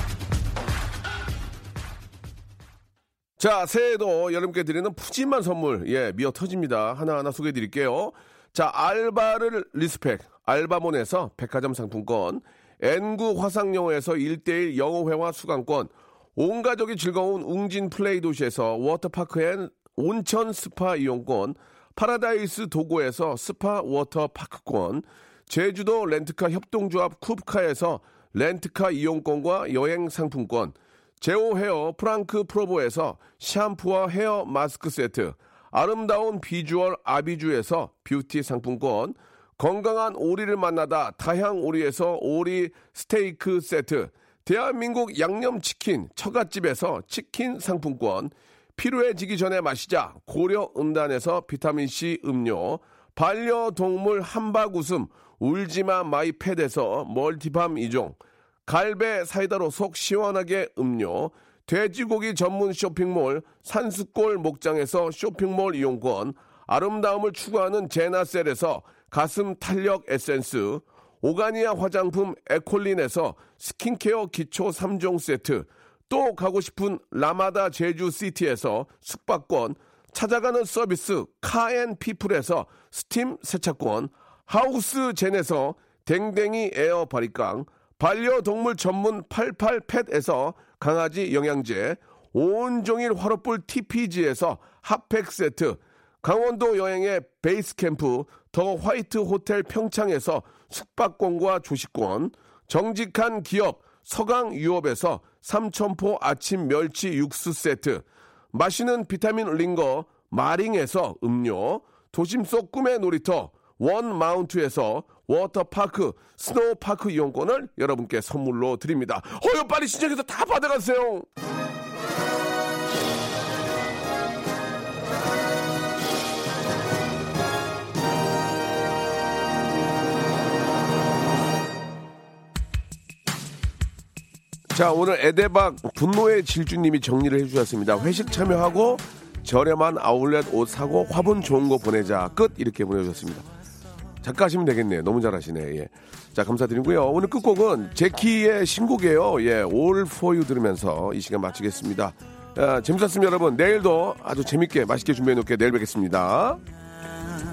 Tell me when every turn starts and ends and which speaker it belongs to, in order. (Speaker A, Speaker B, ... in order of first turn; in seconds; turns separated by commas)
Speaker A: 3.4-121.2, Speaker A: 134.7-143.5, Speaker A: 144.2-156.6